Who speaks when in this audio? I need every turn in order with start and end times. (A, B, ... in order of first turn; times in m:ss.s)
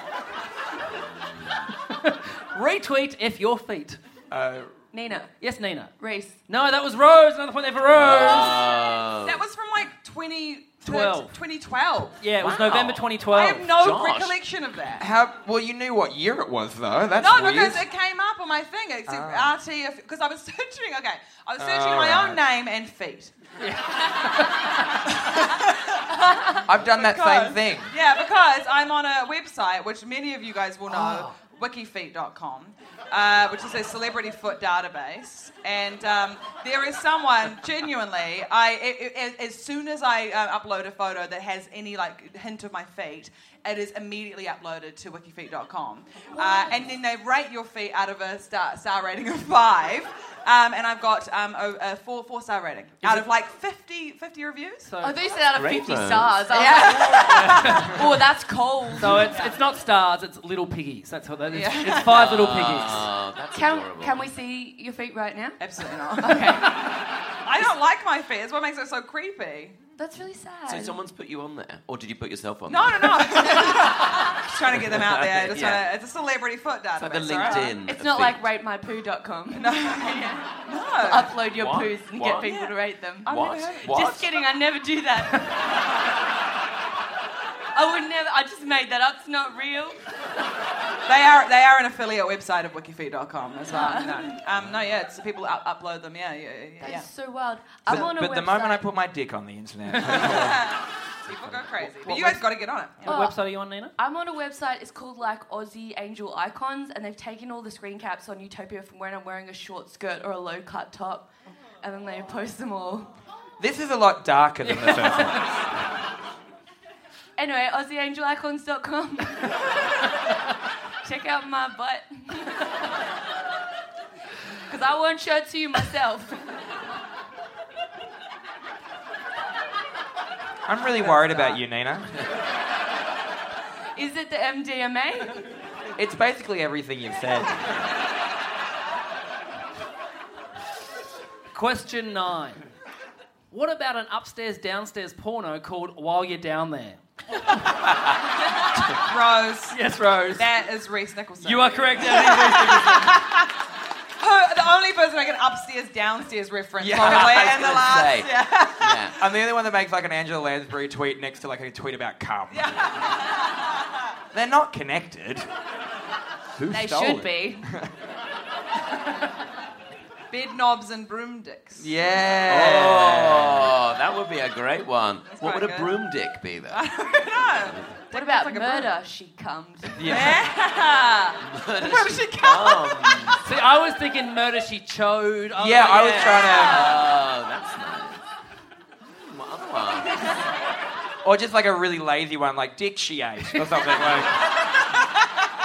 0:01.2-0:01.7 A
0:01.9-0:04.0 B
0:04.3-0:04.7 C
0:04.9-0:05.3 D
0:05.4-0:05.9 B
0:06.0-0:06.4 D
0:06.5-0:08.6 B
0:07.9-0:09.4 A
0:09.2-0:12.2 E
0:10.8-0:11.3 B
0:12.2-0:13.7 B
0:12.4-0:13.1 A
0:13.3-0:15.1 E
0:13.8-0:14.4 A
0:15.0-0:17.8 C
0:17.1-0:23.3 E
0:19.1-0:19.5 C
0:21.6-0:22.4 C
0:23.6-0:24.8 B
0:25.5-0:26.0 E
0:26.7-0:27.9 C
0:26.8-0:54.9 E
0:30.9-0:31.3 B
0:46.4-0:46.7 D
0:53.0-0:53.3 B
0:54.8-0:55.2 B
0:55.0-0:59.4 D
0:55.5-0:56.5 A
0:56.5-0:58.0 E
0:57.4-0:57.9 B
0:59.0-1:03.1 B
1:01.5-1:02.3 E
1:02.1-1:04.3 A
1:03.5-1:05.6 D
1:05.6-1:06.6 E
1:06.2-1:06.9 D
1:07.4-1:09.8 E
1:10.0-1:11.0 D
1:10.7-1:15.9 A
1:12.7-1:17.8 E
1:17.0-1:18.4 A
1:17.4-1:25.5 D
1:19.5-1:21.3 E
1:21.4-1:22.6 A
1:22.4-1:22.7 E
1:23.2-1:24.3 A
1:23.2-1:23.9 E
1:27.7-1:30.0 D
1:31.1-1:37.1 E
1:33.7-1:34.3 D
1:36.8-1:38.8 D
1:37.8-1:40.7 C
1:40.0-1:43.1 E
1:41.6-1:42.4 C
1:43.0-1:43.9 B
1:43.0-1:43.4 D
1:44.0-1:51.3 D
1:51.8-1:53.1 D
1:53.6-1:55.6 C
1:54.6-1:55.4 B
1:57.4-1:59.6 D
2:01.0-2:02.7 D
2:04.7-2:06.4 D
2:10.7-2:12.2 C
2:14.0-2:15.4 D
2:16.0-2:17.7 C
2:21.5-2:22.6 B
2:23.5-2:27.0 B
2:29.0-2:29.8 E
2:29.7-2:30.5 B
2:30.3-2:33.3 E
2:31.4-2:33.1 B
2:34.2-2:39.1 E
2:36.8-2:37.7 C
2:37.0-2:39.2 A
2:39.2-2:42.8 C
2:42.5-2:43.7 E
2:44.3-2:45.5 C
2:46.6-2:47.9 C
2:46.7-2:47.7 D
2:50.3-2:51.9 E
2:51.8-2:53.7 C
2:52.5-2:56.8 A
2:55.3-2:55.9 E
2:56.7-2:58.9 E
2:57.6-2:58.0 A
2:58.1-3:00.1 D
3:00.0-3:00.4 C
3:00.0-3:03.4 E
3:01.4-3:03.4 A
3:03.4-3:06.6 B
3:05.6-3:06.9 C
3:06.5-3:08.2 A
3:09.1-3:10.4 A
3:11.2-3:14.3 C